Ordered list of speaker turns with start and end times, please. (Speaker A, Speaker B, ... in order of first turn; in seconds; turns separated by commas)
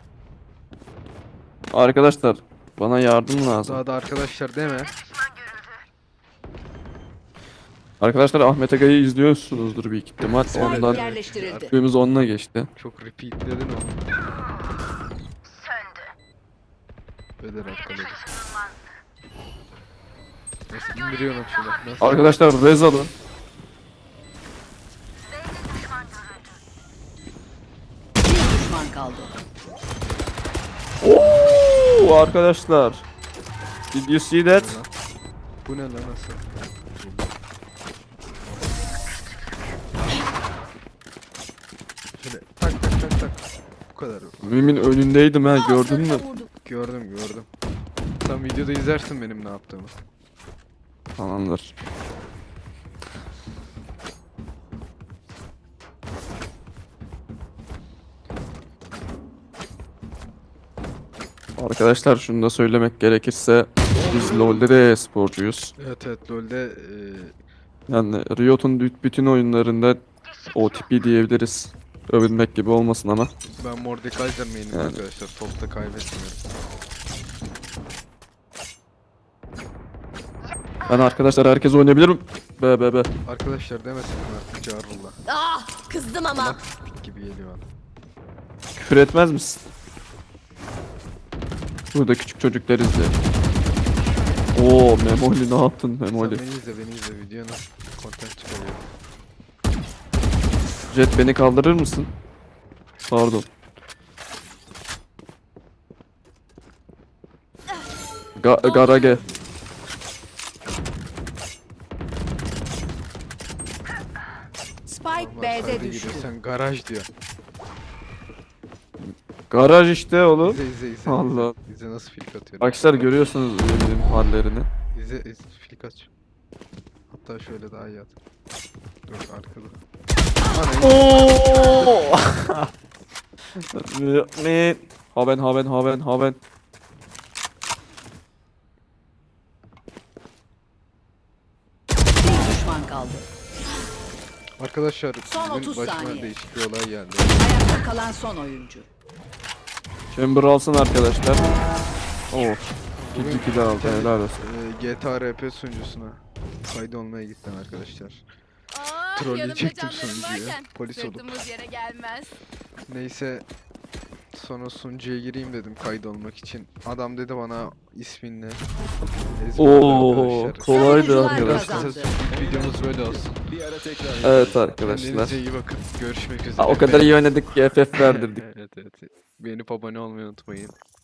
Speaker A: 1.7-3.8, Speaker B: 3.6-4.9, Speaker A: 8.0-11.0, Speaker B: 10.5-11.8, Speaker C: 10.5-11.7, Speaker A: 11.7-12.7, Speaker B: 12.8-14.0, Speaker B: 17.4-18.2, Speaker B: 20.7-22.4, Speaker A: 22.0-23.1, Speaker C: 28.2-29.4, Speaker A: 31.0-33.0, Speaker A: 33.9-34.8, Speaker B: 34.5-34.9, Speaker B: 35.6-36.5, Speaker B: 42.2-43.4, Speaker B: 43.9-45.0, Speaker A: 44.4-46.2, Speaker D: 45.5-46.5, Speaker B: 46.6-47.5, Speaker B: 48.2-49.9, Speaker A: 51.2-51.7, Speaker A: 61.6-65.7, Speaker E: 64.0-64.5, Speaker B: 65.8-67.3, Speaker A: 67.9-73.3, Speaker B: 73.6-76.4, Speaker A: 74.7-75.0, Speaker A: 80.8-83.1, Speaker B: 83.2-85.2, Speaker D: 85.3-86.6, Speaker B: 86.3-87.6, Speaker A: 88.8-89.6, Speaker A: 91.9-93.2, Speaker A: 94.5-96.4, Speaker B: 96.1-98.8, Speaker A: 100.9-102.1, Speaker A: 103.0-103.5, Speaker A: 108.4-109.2, Speaker D: 108.6-109.2, Speaker C: 114.9-116.3, Speaker B: 115.1-117.1, Speaker A: 119.1-121.5, Speaker B: 120.4-123.2, Speaker A: 122.6-124.7, Speaker B: 124.9-126.1, Speaker B: 127.1-128.1, Speaker B: 129.1-129.8, Speaker B: 130.4-131.9, Speaker A: 130.8-132.7, Speaker A: 133.6-136.4, Speaker C: 142.2-143.3, Speaker B: 144.6-147.4, Speaker C: 145.2-146.3, Speaker C: 147.3-148.9, Speaker A: 150.1-151.5, Speaker A: 152.3-154.4, Speaker B: 153.0-158.2, Speaker D: 158.7-162.3, Speaker B: 159.1-161.4, Speaker B: 162.9-163.4, Speaker B: 164.3-168.6, Speaker B: 169.3-173.3, Speaker A: 169.6-171.9, Speaker D: 170.7-171.9, Speaker C: 171.2-172.2, Speaker E: 172.2-174.7, Speaker A: 174.2-175.4, Speaker B: 174.8-177.2, Speaker A: 176.6-178.4, Speaker B: 177.9-180.8